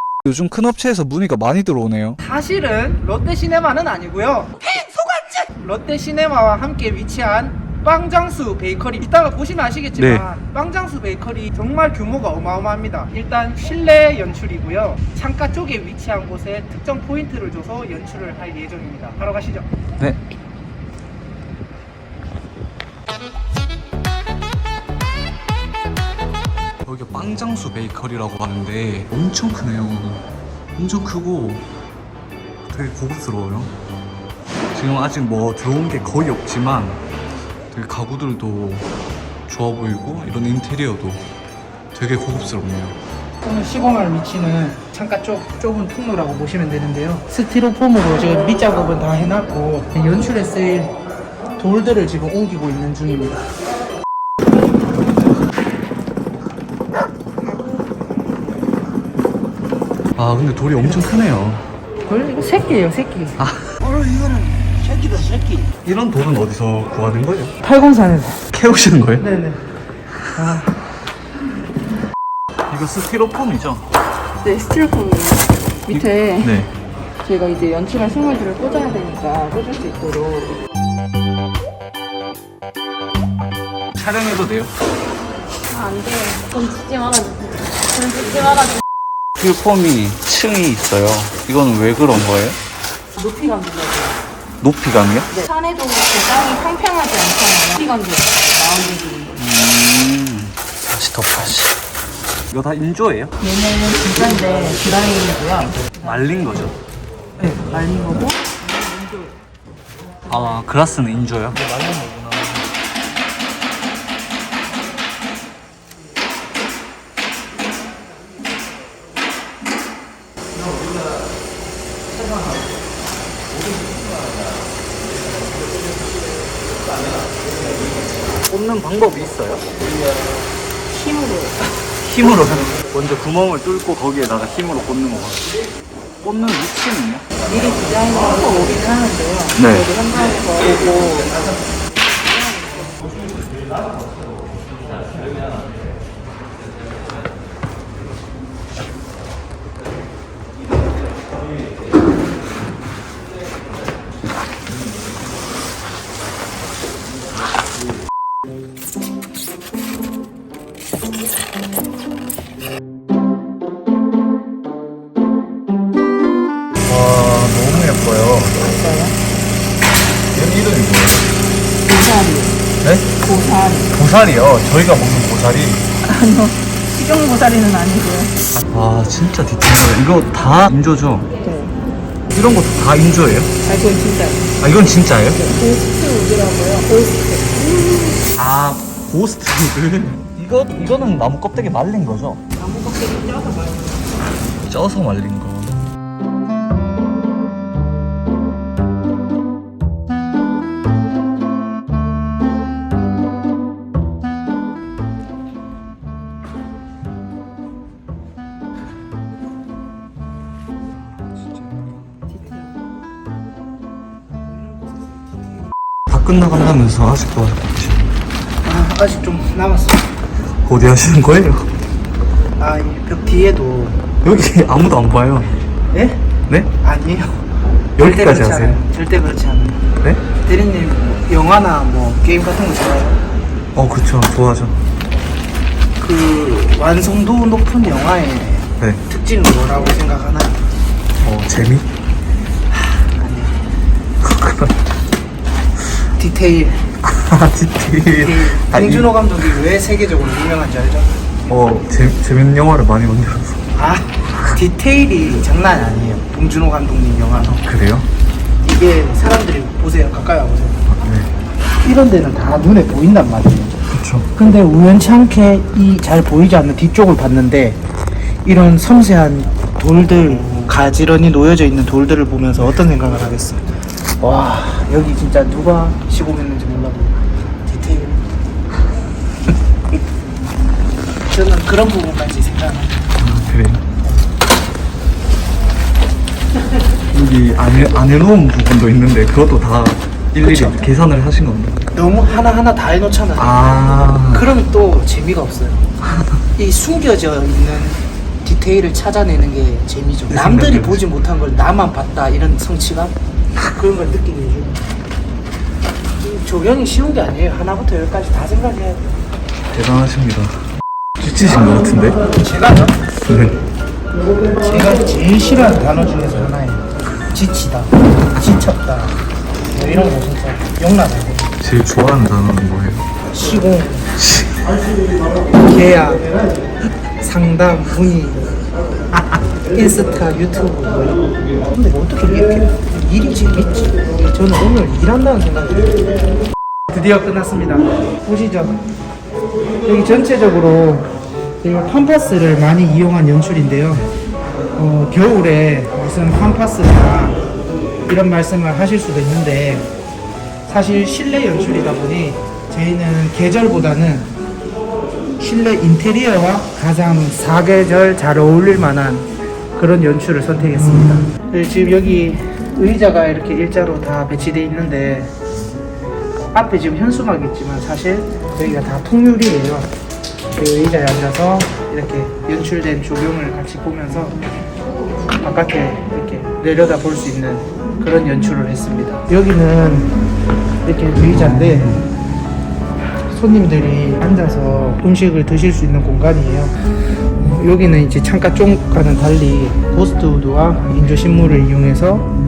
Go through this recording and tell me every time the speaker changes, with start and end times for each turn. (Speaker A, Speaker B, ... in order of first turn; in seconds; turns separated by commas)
Speaker A: 0.2-2.2, Speaker B: 2.2-19.7, Speaker A: 10.0-10.3, Speaker A: 26.8-30.2, Speaker A: 30.8-31.7, Speaker A: 32.7-33.8, Speaker A: 34.7-37.0, Speaker A: 37.7-38.9, Speaker A: 39.5-41.3, Speaker A: 41.9-43.0, Speaker B: 43.4-51.0, Speaker B: 51.6-53.4, Speaker A: 60.2-61.7, Speaker B: 62.1-65.7, Speaker C: 62.3-62.9, Speaker A: 63.4-63.7, Speaker A: 65.8-67.5, Speaker B: 67.6-68.5, Speaker A: 68.5-69.2, Speaker B: 69.2-69.7, Speaker B: 70.3-70.7, Speaker A: 72.7-73.9, Speaker C: 74.4-76.5, Speaker A: 75.9-76.7, Speaker C: 77.2-80.6, Speaker A: 84.0-84.7, Speaker C: 85.7-88.8, Speaker A: 89.4-92.6, Speaker C: 93.2-94.2, Speaker A: 94.6-95.3, Speaker C: 95.3-99.4, Speaker A: 99.3-101.8, Speaker A: 102.5-103.3, Speaker C: 103.4-106.0, Speaker A: 105.8-106.8, Speaker C: 107.4-108.5, Speaker A: 110.3-112.7, Speaker A: 128.5-129.7, Speaker C: 130.9-131.6, Speaker A: 132.0-135.5, Speaker A: 136.2-137.3, Speaker C: 137.4-141.5, Speaker B: 137.5-139.1, Speaker A: 139.6-139.9, Speaker C: 142.3-143.1, Speaker A: 166.8-168.7, Speaker C: 168.6-169.2, Speaker A: 170.3-171.3, Speaker C: 171.8-172.6, Speaker A: 172.8-173.2, Speaker C: 173.2-173.9, Speaker A: 173.9-175.8, Speaker C: 176.0-178.3, Speaker A: 178.5-181.3, Speaker C: 181.4-181.8, Speaker A: 182.3-183.5, Speaker C: 183.6-184.5, Speaker A: 184.6-185.4, Speaker C: 185.3-188.2, Speaker A: 188.3-192.4, Speaker C: 192.6-193.9, Speaker A: 194.6-195.8, Speaker A: 216.1-218.1, Speaker B: 218.6-220.1, Speaker A: 220.6-221.7, Speaker B: 222.6-224.0, Speaker A: 224.2-225.5, Speaker B: 225.9-226.3, Speaker B: 226.8-227.4, Speaker A: 228.0-228.8, Speaker B: 228.0-233.2, Speaker A: 233.8-234.8, Speaker B: 236.0-240.6, Speaker A: 241.2-241.9, Speaker B: 243.0-243.6, Speaker A: 244.2-244.7, Speaker B: 246.1-246.9, Speaker A: 247.0-249.2, Speaker B: 248.2-251.2, Speaker A: 251.5-253.6, Speaker B: 253.7-257.6, Speaker A: 257.4-258.1, Speaker B: 258.6-260.9, Speaker A: 260.9-261.3, Speaker B: 261.8-263.8, Speaker A: 263.9-264.3, Speaker B: 264.4-267.8, Speaker B: 268.4-278.2, Speaker A: 270.4-270.7, Speaker B: 281.2-283.1, Speaker A: 283.1-283.8, Speaker A: 287.1-291.9, Speaker B: 290.4-290.9, Speaker B: 291.9-295.9, Speaker A: 293.4-294.5, Speaker B: 296.6-303.1, Speaker A: 300.3-301.0, Speaker B: 303.7-304.8, Speaker B: 306.2-309.1, Speaker A: 309.7-310.6, Speaker A: 311.2-312.2, Speaker B: 312.2-313.0, Speaker A: 313.2-313.6, Speaker B: 314.6-319.2, Speaker B: 319.7-321.5, Speaker A: 321.6-323.1, Speaker B: 323.2-324.1, Speaker A: 324.2-324.7, Speaker B: 325.6-326.4, Speaker B: 327.2-328.5, Speaker B: 329.5-336.1, Speaker B: 336.9-338.8, Speaker B: 339.8-344.1, Speaker B: 344.8-347.4, Speaker B: 348.1-349.9, Speaker B: 350.7-354.3, Speaker B: 355.4-365.3, Speaker B: 366.5-369.9, Speaker B: 370.5-374.4, Speaker B: 375.4-380.1, Speaker B: 380.9-382.0, Speaker A: 381.3-382.1, Speaker B: 383.3-392.3